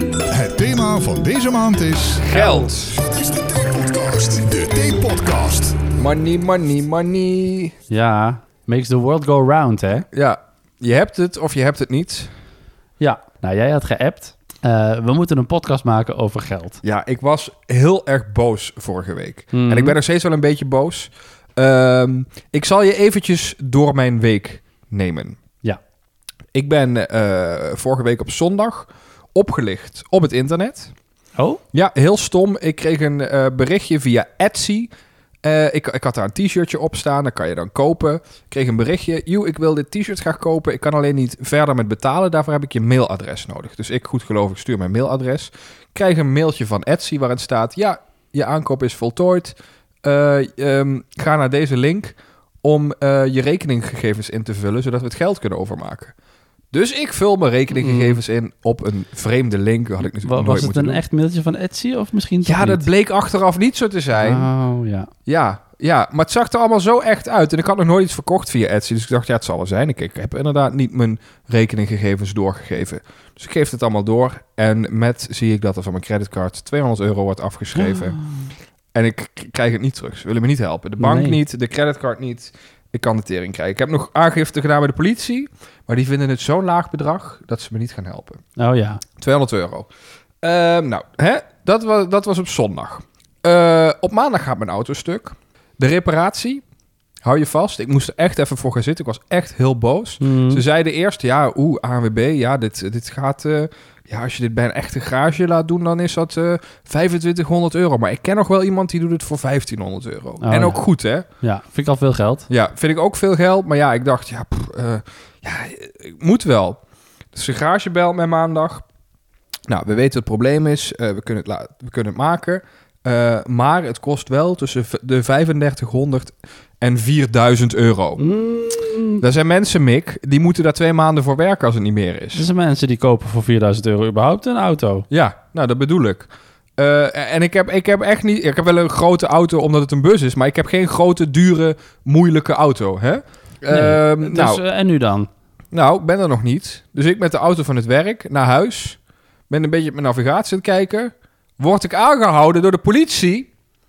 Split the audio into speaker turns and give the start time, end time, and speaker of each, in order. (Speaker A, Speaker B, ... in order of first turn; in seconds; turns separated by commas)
Speaker A: 0.3-5.8, Speaker B: 2.2-3.0, Speaker B: 6.0-7.7, Speaker C: 7.9-10.1, Speaker B: 10.1-12.3, Speaker C: 13.0-16.8, Speaker B: 16.8-25.4, Speaker C: 19.5-20.0, Speaker B: 26.5-30.9, Speaker B: 31.7-34.9, Speaker B: 35.4-56.1, Speaker B: 56.7-61.0, Speaker C: 57.7-58.2, Speaker C: 60.2-62.9, Speaker B: 62.4-64.5, Speaker C: 64.1-65.1, Speaker B: 65.3-78.2, Speaker C: 77.8-78.5, Speaker B: 78.9-88.4, Speaker C: 81.0-81.4, Speaker C: 88.6-89.0, Speaker B: 89.2-89.9, Speaker B: 90.4-96.6, Speaker B: 97.2-111.2, Speaker C: 100.2-100.6, Speaker C: 110.4-110.8, Speaker C: 111.4-112.5, Speaker B: 112.5-116.8, Speaker B: 117.3-118.8, Speaker B: 119.7-128.2, Speaker C: 128.2-129.2, Speaker B: 129.2-132.4, Speaker C: 132.3-135.1, Speaker B: 135.1-144.6, Speaker C: 143.7-145.3, Speaker B: 145.7-149.0, Speaker B: 149.5-153.5